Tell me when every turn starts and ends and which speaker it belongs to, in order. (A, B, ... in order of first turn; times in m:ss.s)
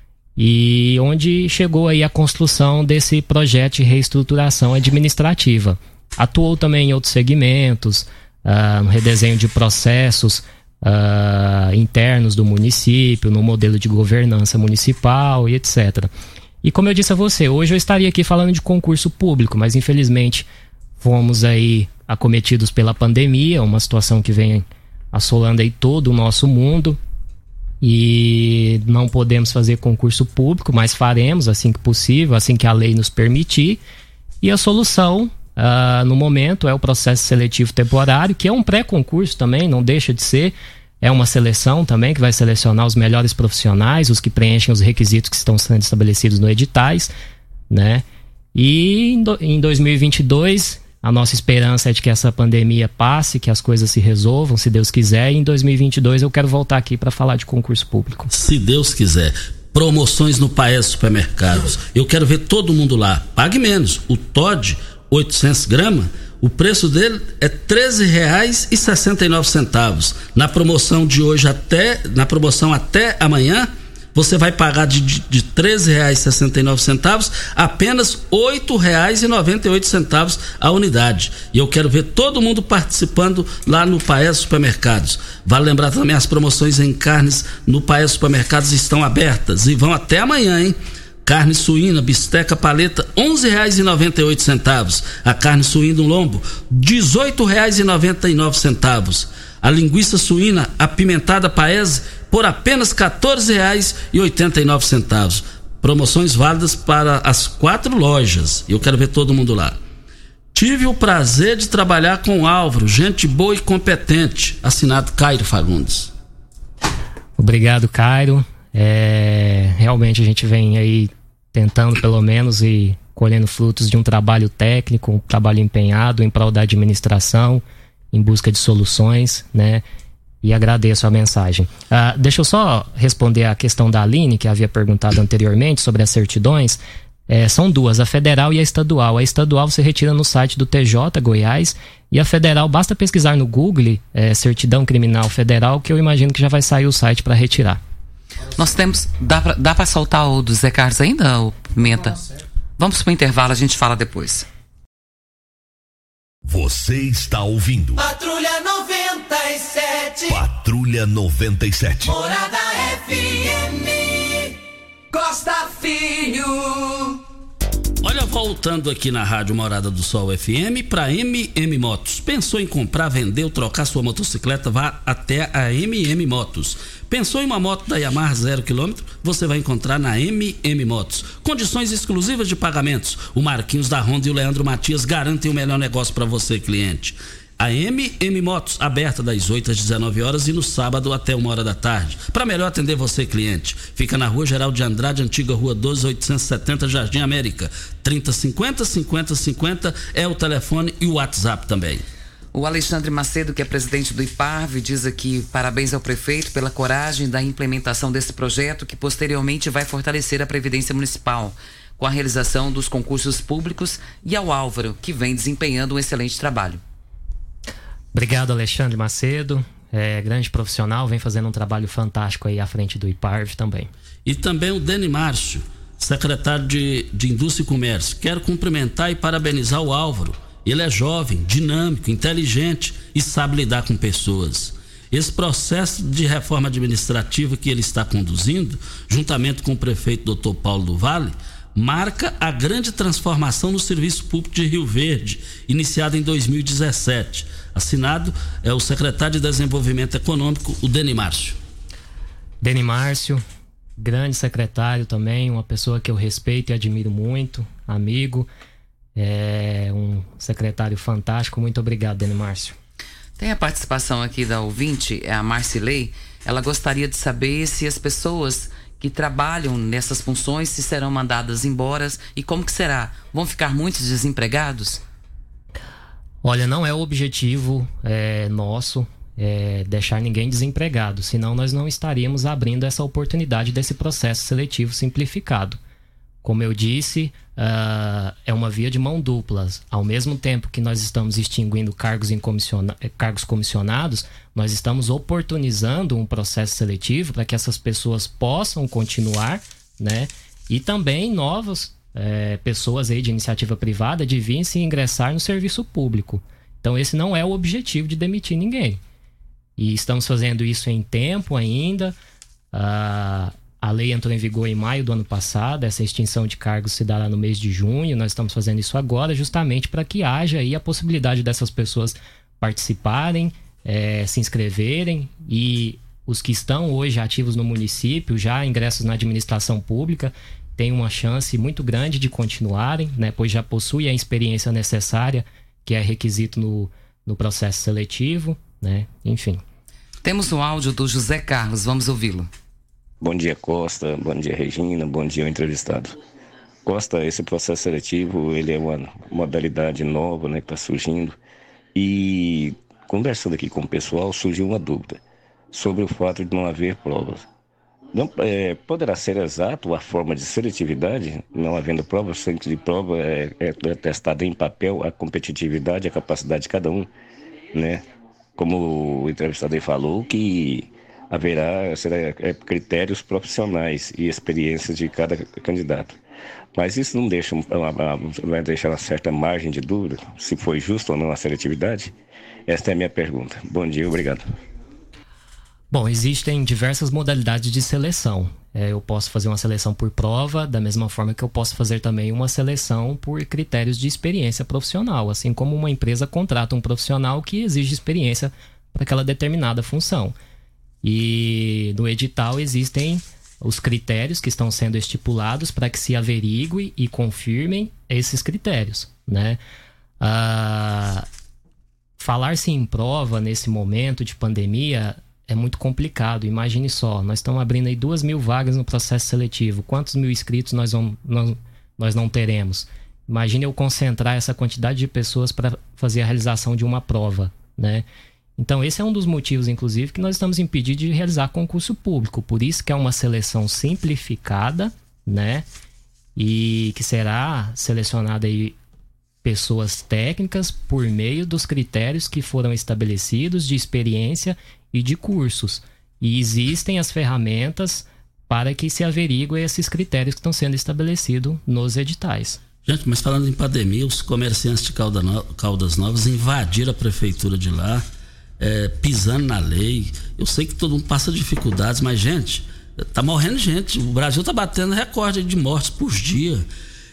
0:00.4-0:16.1 A
0:16.6-0:20.5 A
0:21.0-0:27.0 A
0:27.8-0:33.8 A
0:34.4-0:47.1 A
0:47.7-0:58.3 A
0:58.3-1:49.8 B
1:50.5-1:56.1 B
1:57.4-2:09.8 A
2:10.4-2:27.8 A
2:28.6-2:32.2 C
2:32.8-2:34.5 C
2:36.4-2:38.0 D
2:38.0-2:40.4 E
2:40.3-2:42.1 D
2:42.0-2:44.6 E
2:45.1-2:47.2 E
2:48.0-3:22.0 B
3:22.5-3:36.8 C
3:38.1-3:43.9 A
3:44.2-4:11.6 B
4:12.6-4:13.4 A
4:14.0-4:18.5 A
4:19.1-4:22.8 A
4:23.4-4:35.0 C
4:36.4-4:45.8 A
4:46.4-5:09.0 A
5:09.8-5:12.1 A
5:12.7-5:39.6 A
5:40.2-5:42.5 C
5:43.2-5:46.2 F
5:46.8-5:51.4 F
5:51.9-5:55.2 F
5:55.7-5:57.4 F
5:58.1-6:07.1 F
6:07.7-6:08.0 F
6:08.6-6:16.2 F
6:16.7-6:22.1 F
6:22.7-6:24.4 F
6:25.9-6:40.3 A
6:41.0-6:49.6 A
6:50.2-6:51.2 A
6:52.2-7:08.0 A
7:08.6-7:15.7 A
7:16.4-7:18.8 A
7:19.4-7:32.6 A
7:32.8-7:38.0 B
7:38.6-7:46.6 B